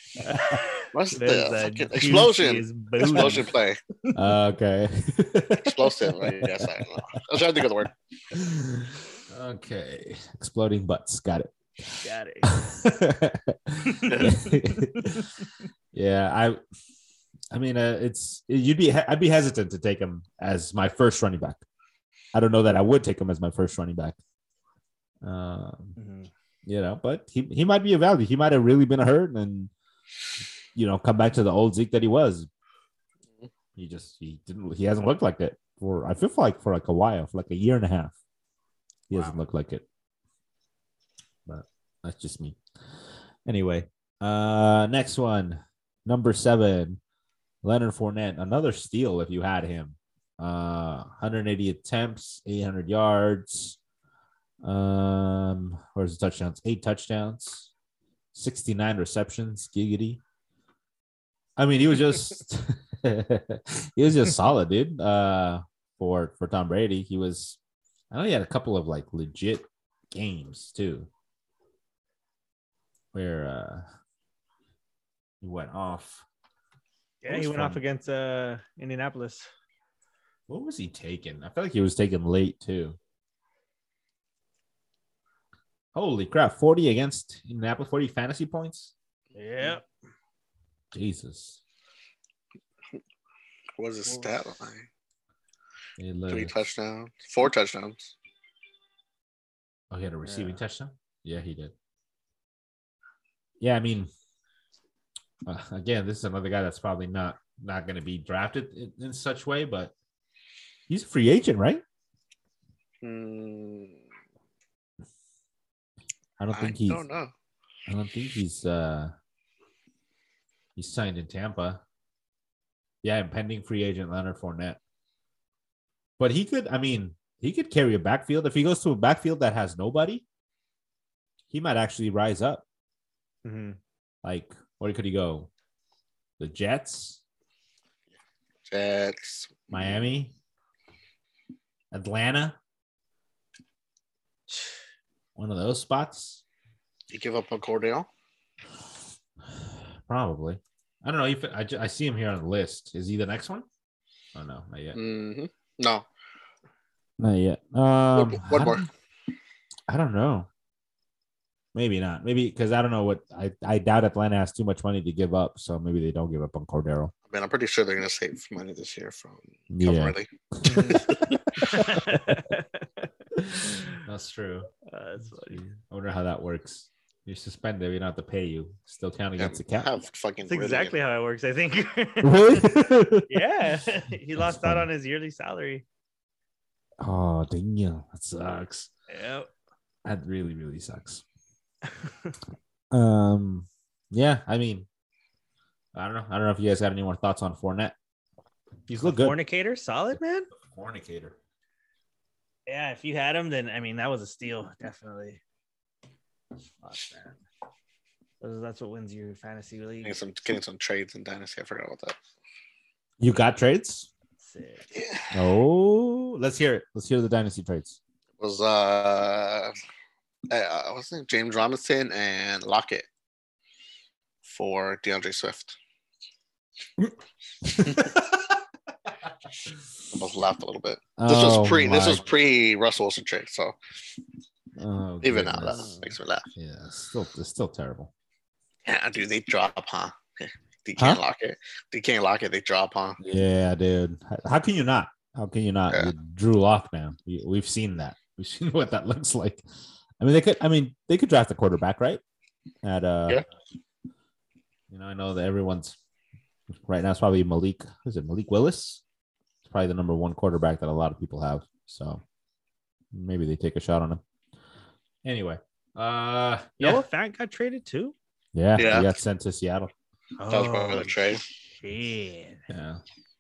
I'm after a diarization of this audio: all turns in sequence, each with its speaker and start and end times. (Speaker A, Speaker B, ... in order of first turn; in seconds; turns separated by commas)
Speaker A: 0.2-3.5, Speaker B: 0.9-3.8, Speaker C: 4.1-6.8, Speaker B: 5.6-7.9, Speaker C: 8.3-15.3, Speaker A: 12.0-12.7, Speaker A: 13.9-15.1, Speaker C: 15.9-16.6, Speaker C: 17.5-21.6, Speaker C: 22.3-24.2, Speaker C: 25.2-26.0, Speaker A: 26.0-26.3, Speaker C: 26.7-29.7, Speaker C: 30.8-32.5, Speaker C: 33.8-38.1, Speaker C: 39.1-39.9, Speaker B: 39.1-39.4, Speaker C: 41.5-42.6, Speaker C: 43.5-47.0, Speaker C: 47.6-53.8, Speaker C: 54.6-57.7, Speaker C: 58.3-60.2, Speaker C: 61.6-67.6, Speaker C: 68.1-71.1, Speaker C: 73.1-73.9, Speaker C: 75.4-76.2, Speaker A: 77.2-79.5, Speaker C: 77.2-77.8, Speaker C: 80.5-83.0, Speaker C: 85.9-88.9, Speaker A: 89.3-89.9, Speaker C: 90.9-91.6, Speaker B: 93.8-94.9, Speaker A: 94.1-94.3, Speaker C: 96.0-96.5, Speaker B: 96.3-98.2, Speaker C: 99.9-101.7, Speaker A: 100.2-100.6, Speaker C: 103.6-104.1, Speaker C: 105.5-109.9, Speaker C: 110.9-111.8, Speaker B: 113.0-114.0, Speaker C: 116.4-117.0, Speaker B: 116.5-117.3, Speaker C: 117.9-119.1, Speaker C: 120.8-121.8, Speaker C: 123.0-124.8, Speaker C: 126.2-130.2, Speaker C: 131.5-132.7, Speaker A: 133.4-133.8, Speaker C: 134.2-135.5, Speaker C: 136.4-137.2, Speaker B: 138.7-140.0, Speaker C: 139.7-140.3, Speaker C: 141.9-142.6, Speaker C: 145.4-146.4, Speaker B: 147.1-148.1, Speaker C: 150.1-153.7, Speaker C: 154.3-155.0, Speaker B: 154.9-156.1, Speaker C: 157.2-158.9, Speaker B: 158.1-158.9, Speaker C: 159.9-160.5, Speaker C: 161.7-167.1, Speaker B: 167.3-171.4, Speaker C: 169.7-172.2, Speaker A: 170.6-171.1, Speaker A: 171.6-174.0, Speaker C: 173.4-174.7, Speaker A: 174.9-175.7, Speaker C: 175.5-179.9, Speaker B: 179.4-180.9, Speaker A: 180.5-182.7, Speaker C: 182.2-183.4, Speaker A: 183.3-185.8, Speaker C: 184.4-184.9, Speaker C: 187.0-188.9, Speaker A: 189.1-189.5, Speaker C: 190.1-191.2, Speaker C: 192.9-194.9, Speaker C: 195.9-197.9, Speaker C: 198.9-199.4, Speaker A: 199.0-200.5, Speaker C: 200.7-201.4, Speaker A: 202.7-205.4, Speaker A: 206.8-207.3, Speaker A: 208.4-210.2, Speaker B: 210.0-212.2, Speaker C: 213.2-214.1, Speaker A: 214.4-214.9, Speaker B: 214.9-215.4, Speaker C: 215.3-218.0, Speaker B: 218.4-219.7, Speaker B: 220.5-223.1, Speaker B: 224.4-225.8, Speaker C: 227.6-228.5, Speaker B: 230.1-233.8, Speaker C: 231.2-232.2, Speaker C: 234.8-236.0, Speaker B: 235.2-236.5, Speaker A: 235.7-236.1, Speaker C: 236.6-238.1, Speaker B: 238.8-243.2, Speaker C: 243.2-249.6, Speaker C: 250.2-252.2, Speaker C: 252.8-253.4, Speaker C: 254.9-256.0, Speaker C: 256.7-259.0, Speaker C: 259.6-262.2, Speaker C: 263.1-264.2, Speaker C: 265.2-267.0, Speaker A: 266.8-268.1, Speaker C: 268.6-269.9, Speaker B: 268.8-269.2, Speaker A: 270.4-271.2, Speaker B: 270.5-271.4, Speaker A: 271.7-272.6, Speaker C: 272.7-273.0